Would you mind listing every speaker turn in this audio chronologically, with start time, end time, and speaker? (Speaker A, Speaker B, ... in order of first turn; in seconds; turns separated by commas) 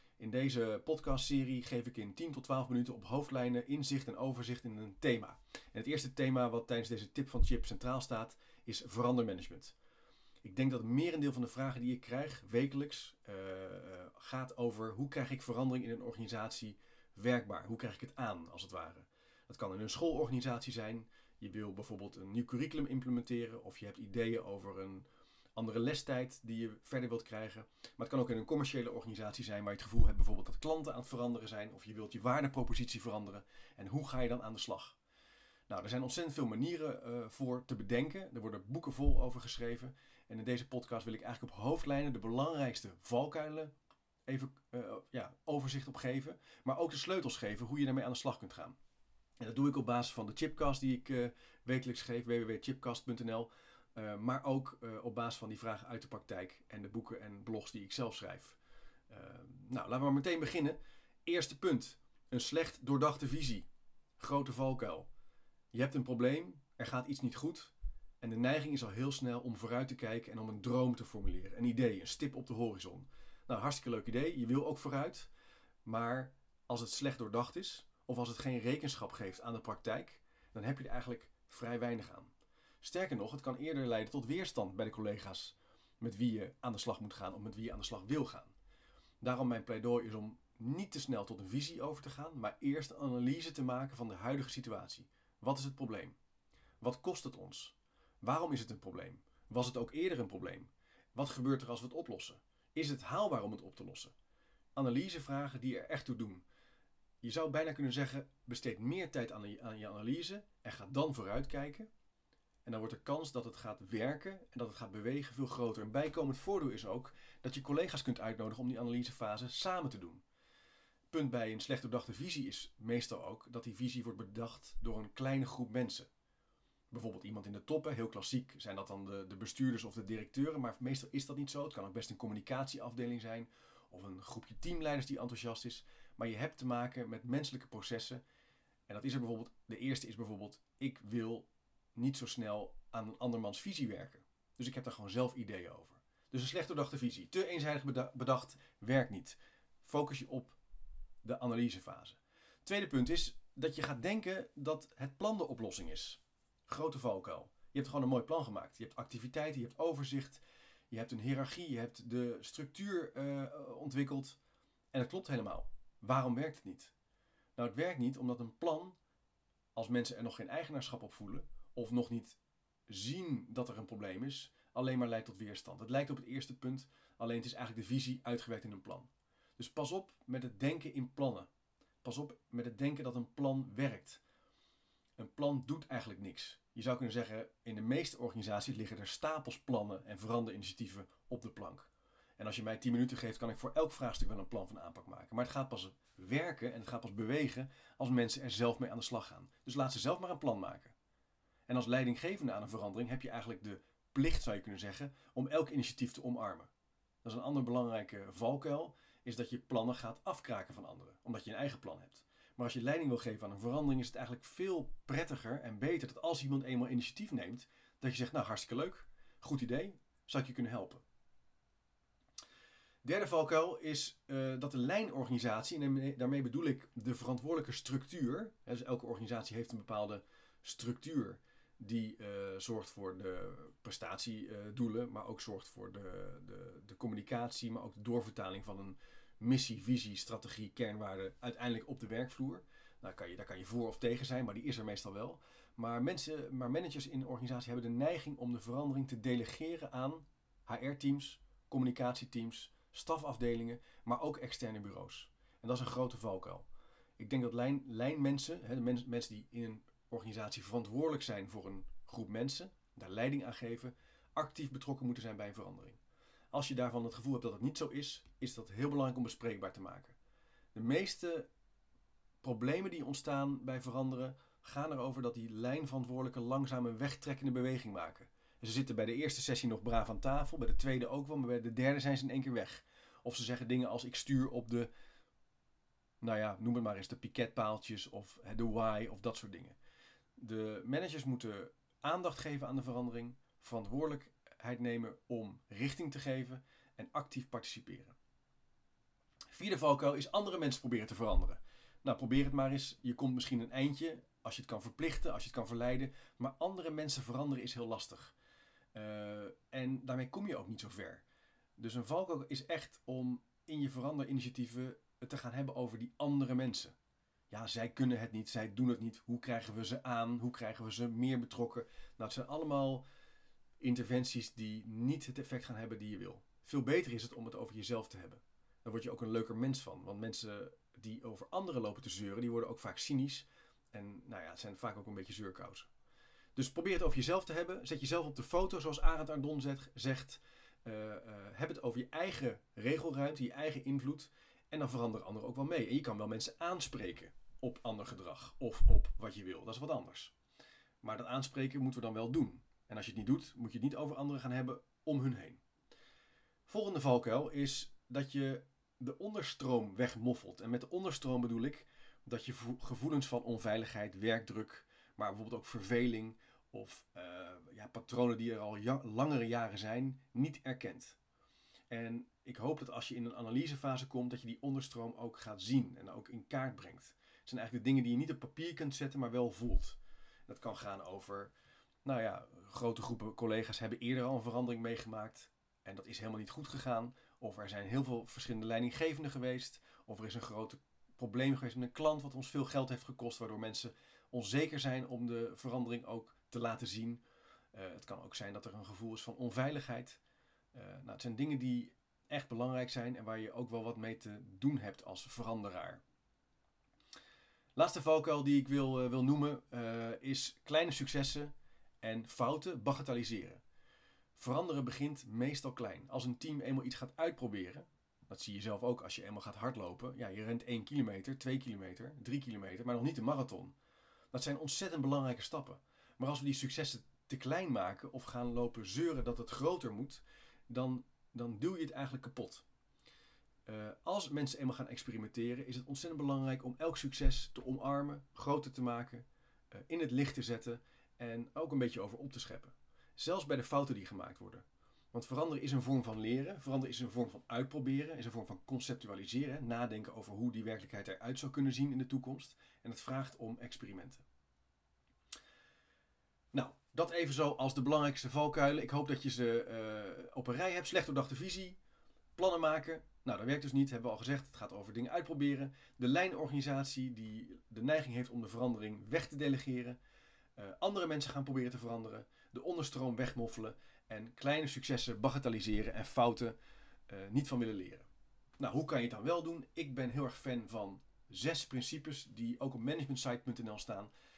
Speaker A: 0.2-9.8, Speaker A: 10.4-35.0, Speaker A: 35.7-43.7, Speaker A: 44.3-48.8, Speaker A: 49.4-58.6, Speaker A: 59.1-63.7, Speaker A: 64.2-65.1, Speaker A: 65.7-75.3, Speaker A: 75.8-88.5, Speaker A: 89.2-96.2, Speaker A: 96.8-104.2, Speaker A: 104.8-106.5, Speaker A: 107.2-111.9, Speaker A: 112.7-120.2, Speaker A: 121.1-126.1, Speaker A: 126.9-138.2, Speaker A: 138.9-150.6, Speaker A: 151.2-164.4, Speaker A: 164.9-166.9, Speaker A: 167.6-169.0, Speaker A: 169.8-181.5, Speaker A: 182.0-184.2, Speaker A: 185.2-200.9, Speaker A: 201.7-206.7, Speaker A: 207.2-221.0, Speaker A: 223.0-256.7, Speaker A: 257.2-266.0, Speaker A: 266.5-270.2, Speaker A: 270.7-271.5, Speaker A: 272.4-284.9, Speaker A: 286.2-289.8, Speaker A: 290.4-298.2, Speaker A: 299.5-308.4, Speaker A: 308.9-311.2, Speaker A: 311.8-317.0, Speaker A: 317.5-323.1, Speaker A: 323.8-335.9, Speaker A: 336.6-350.3, Speaker A: 351.0-355.6, Speaker A: 356.7-371.2, Speaker A: 371.9-381.5, Speaker A: 382.1-397.2, Speaker A: 397.7-400.2, Speaker A: 400.7-406.0, Speaker A: 407.8-413.6, Speaker A: 414.4-423.8, Speaker A: 424.3-432.6, Speaker A: 433.7-454.2, Speaker A: 456.5-461.8, Speaker A: 462.4-470.0, Speaker A: 470.6-476.6, Speaker A: 477.1-478.1, Speaker A: 478.6-484.1